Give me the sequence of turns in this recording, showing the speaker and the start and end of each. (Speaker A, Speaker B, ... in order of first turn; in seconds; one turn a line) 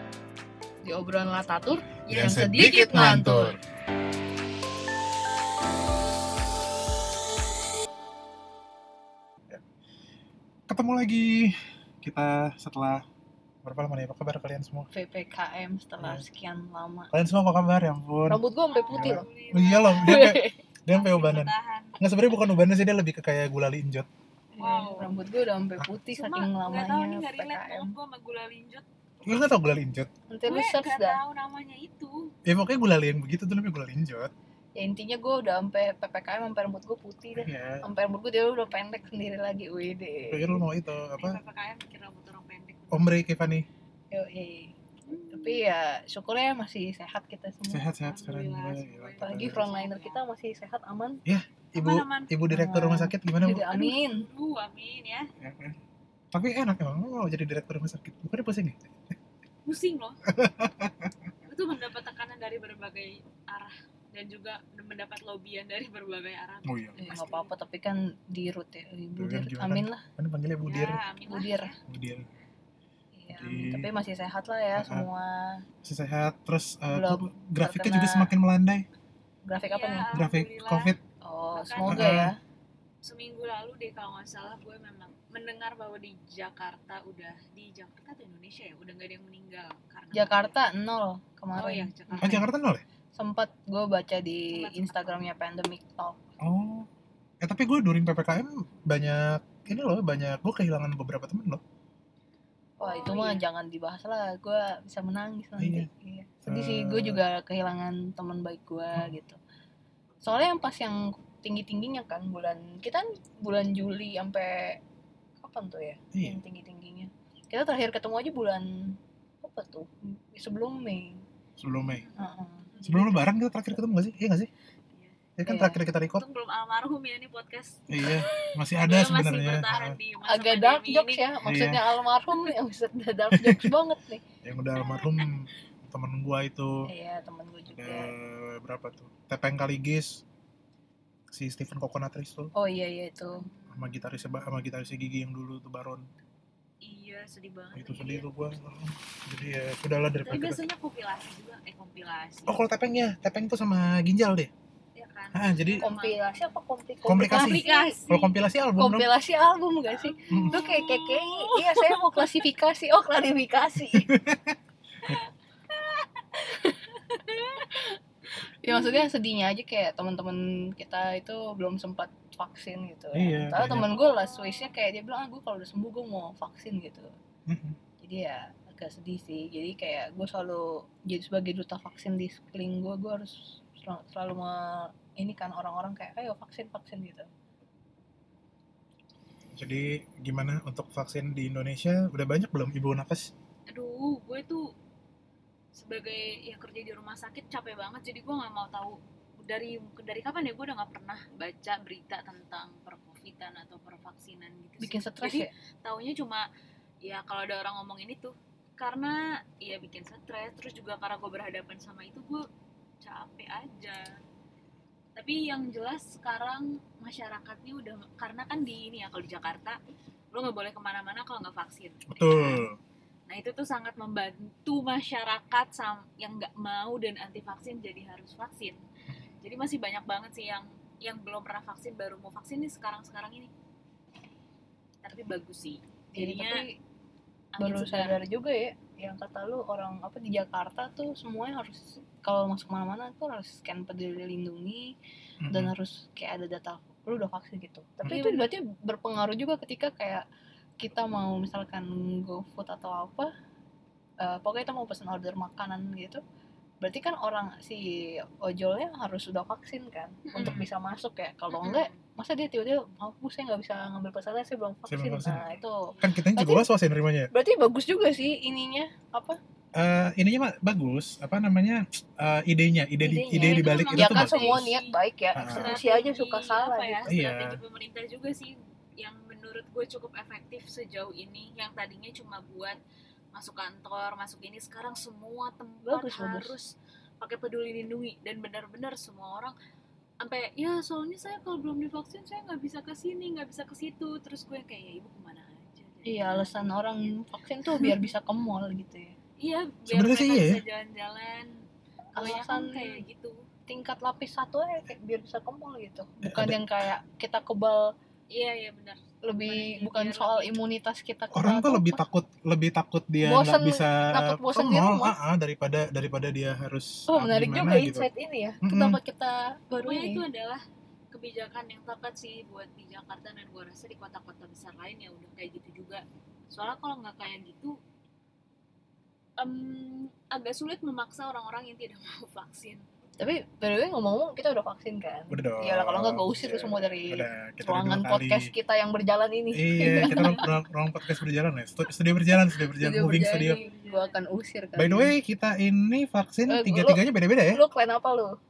Speaker A: 0.8-3.6
Speaker B: 2.1-3.6
Speaker B: 10.7-13.0
Speaker B: 13.6-14.9
Speaker A: 14.9-17.1
Speaker B: 17.1-18.4
Speaker A: 18.3-19.3
Speaker C: 18.7-22.0
Speaker B: 18.9-24.1
Speaker A: 20.0-20.6
Speaker A: 24.5-27.9
Speaker C: 24.6-25.1
Speaker C: 26.1-28.8
Speaker B: 29.2-30.1
Speaker A: 30.3-31.2
Speaker C: 30.4-32.3
Speaker B: 32.5-34.3
Speaker A: 34.8-40.6
Speaker B: 37.4-37.8
Speaker B: 40.3-41.4
Speaker C: 41.1-43.2
Speaker B: 42.9-43.7
Speaker A: 44.1-44.7
Speaker C: 45.1-45.6
Speaker A: 45.3-47.9
Speaker B: 47.7-49.7
Speaker C: 48.0-50.2
Speaker A: 49.2-51.2
Speaker B: 51.2-53.7
Speaker C: 51.8-52.3
Speaker A: 52.5-54.2
Speaker C: 53.6-55.3
Speaker B: 55.4-55.8
Speaker B: 56.3-58.8
Speaker C: 59.6-60.2
Speaker B: 60.3-61.1
Speaker C: 61.4-67.5
Speaker B: 66.6-67.0
Speaker A: 67.0-70.0
Speaker B: 69.2-71.0
Speaker C: 70.6-71.8
Speaker A: 71.2-71.7
Speaker B: 71.9-72.3
Speaker A: 73.1-75.6
Speaker B: 73.3-73.9
Speaker B: 74.8-75.1
Speaker B: 75.8-78.8
Speaker A: 76.9-78.3
Speaker A: 79.4-80.1
Speaker C: 79.6-81.0
Speaker B: 80.1-81.0
Speaker A: 81.2-82.4
Speaker C: 81.5-82.2
Speaker B: 81.9-82.3
Speaker C: 83.0-90.5
Speaker A: 90.1-92.4
Speaker C: 91.5-92.5
Speaker B: 92.2-92.8
Speaker A: 93.1-96.2
Speaker C: 94.5-95.2
Speaker B: 96.4-96.9
Speaker B: 97.4-101.6
Speaker C: 102.8-103.4
Speaker A: 102.8-109.4
Speaker B: 105.6-105.9
Speaker B: 106.5-107.2
Speaker A: 110.2-114.8
Speaker A: 115.4-121.2
Speaker B: 116.1-116.4
Speaker B: 121.6-122.0
Speaker C: 121.9-123.2
Speaker A: 122.2-123.1
Speaker B: 122.8-124.5
Speaker C: 124.9-125.2
Speaker B: 125.4-126.2
Speaker A: 125.4-125.8
Speaker C: 126.1-131.3
Speaker B: 127.9-130.0
Speaker A: 130.2-134.2
Speaker B: 131.4-131.8
Speaker B: 133.3-133.7
Speaker B: 134.4-136.9
Speaker C: 134.7-135.3
Speaker A: 136.8-138.1
Speaker B: 137.7-140.2
Speaker B: 141.3-142.5
Speaker A: 142.5-143.5
Speaker C: 143.3-144.2
Speaker B: 143.7-146.1
Speaker C: 146.8-148.3
Speaker B: 147.7-150.7
Speaker C: 150.2-152.6
Speaker B: 152.5-154.5
Speaker C: 154.9-156.5
Speaker B: 155.3-155.9
Speaker A: 155.8-158.0
Speaker B: 157.0-159.1
Speaker C: 157.2-158.3
Speaker A: 158.8-164.1
Speaker C: 159.9-162.4
Speaker B: 160.3-160.7
Speaker B: 163.9-165.2
Speaker C: 165.1-167.8
Speaker A: 166.5-166.8
Speaker A: 168.6-177.1
Speaker C: 168.7-169.0
Speaker B: 173.1-173.9
Speaker C: 173.5-174.7
Speaker B: 177.5-177.8
Speaker A: 178.0-187.3
Speaker B: 189.5-193.3
Speaker C: 193.7-194.7
Speaker C: 195.7-206.4
Speaker A: 204.8-205.5
Speaker C: 207.0-212.5
Speaker C: 213.0-214.2
Speaker C: 215.2-219.8
Speaker C: 220.3-222.7
Speaker B: 222.1-222.8
Speaker C: 223.3-228.8
Speaker C: 229.4-233.5
Speaker C: 235.0-236.6
Speaker A: 236.1-236.8
Speaker C: 237.5-238.2
Speaker A: 237.6-244.9
Speaker B: 245.4-245.7
Speaker A: 245.5-250.2
Speaker C: 248.1-248.5
Speaker A: 250.8-253.3
Speaker A: 254.2-256.2
Speaker A: 256.8-266.7
Speaker C: 260.2-260.6
Speaker B: 260.4-260.7
Speaker C: 261.5-262.0
Speaker B: 264.9-267.3
Speaker C: 265.9-266.1
Speaker A: 267.3-269.4
Speaker B: 269.7-274.7
Speaker A: 273.0-277.1
Speaker C: 273.4-282.8
Speaker B: 275.3-275.7
Speaker B: 277.1-277.6
Speaker C: 283.3-289.5
Speaker A: 285.8-286.5
Speaker C: 290.2-297.1
Speaker A: 296.0-299.1
Speaker C: 297.7-298.1
Speaker C: 299.4-301.6
Speaker B: 299.9-300.6
Speaker C: 302.1-303.5
Speaker A: 302.1-303.0
Speaker A: 303.7-307.9
Speaker B: 306.2-306.6
Speaker C: 308.3-310.6
Speaker A: 309.2-312.0
Speaker B: 311.3-318.1
Speaker A: 313.2-315.1
Speaker A: 317.1-320.2
Speaker B: 318.6-319.0
Speaker C: 319.7-327.8
Speaker C: 329.4-332.9
Speaker A: 333.2-340.5
Speaker B: 335.3-338.5
Speaker B: 339.5-343.6
Speaker C: 340.0-340.4
Speaker A: 342.6-345.1
Speaker C: 343.2-344.1
Speaker B: 344.8-347.6
Speaker A: 346.5-348.4